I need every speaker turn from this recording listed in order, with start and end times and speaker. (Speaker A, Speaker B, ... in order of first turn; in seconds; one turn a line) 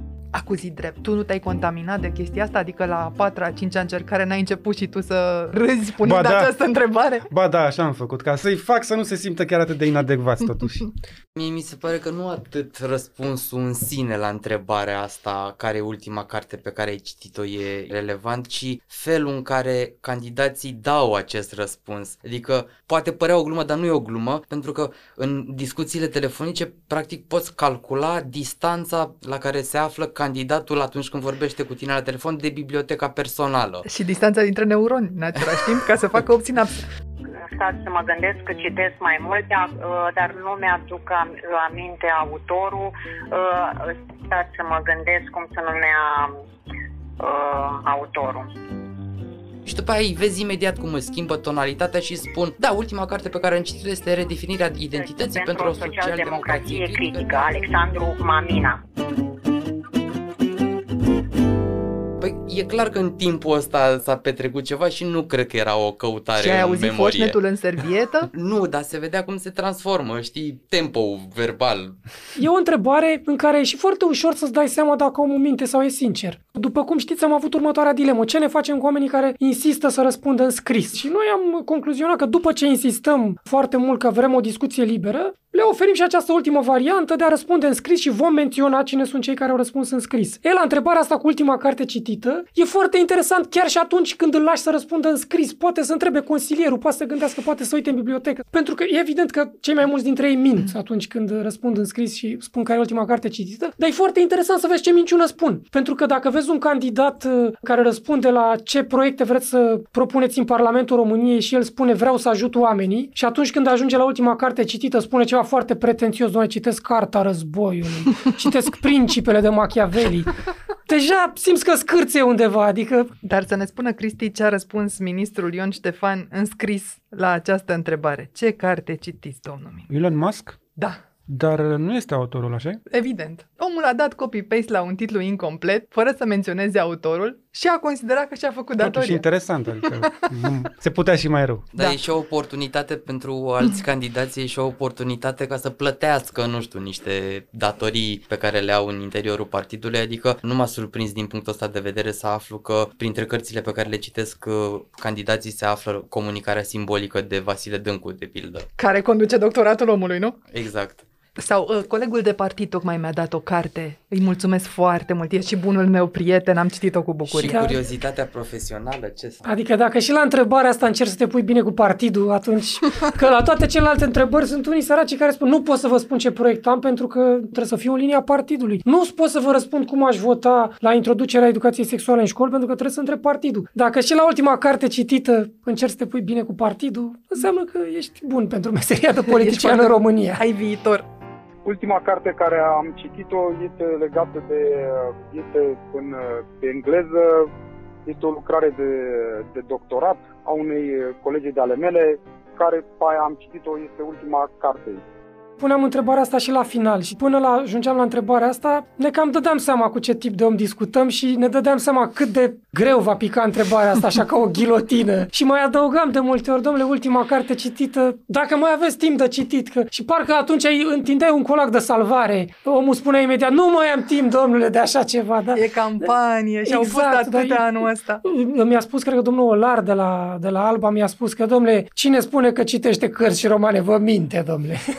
Speaker A: 0.3-7.3
Speaker B: 6.0-6.5
Speaker B: 7.3-10.9
Speaker C: 11.3-33.9
Speaker A: 33.9-36.9
Speaker D: 37.5-46.4
Speaker D: 47.2-48.5
Speaker C: 49.6-57.6
Speaker D: 54.9-58.8
Speaker C: 62.2-67.4
Speaker A: 66.4-68.3
Speaker C: 68.3-72.0
Speaker E: 72.4-120.3
Speaker E: 120.9-123.1
Speaker A: 123.2-129.9
Speaker B: 129.9-130.6
Speaker B: 131.3-132.8
Speaker A: 132.9-139.2
Speaker B: 138.8-141.7
Speaker C: 141.7-158.7
Speaker A: 158.8-160.4
Speaker C: 160.5-161.0
Speaker A: 161.4-167.6
Speaker C: 167.3-169.4
Speaker E: 167.4-167.8
Speaker E: 169.4-190.4
Speaker A: 189.3-191.0
Speaker F: 191.7-197.5
Speaker F: 198.1-205.0
Speaker E: 205.6-225.6
Speaker A: 225.5-228.2
Speaker E: 226.7-234.8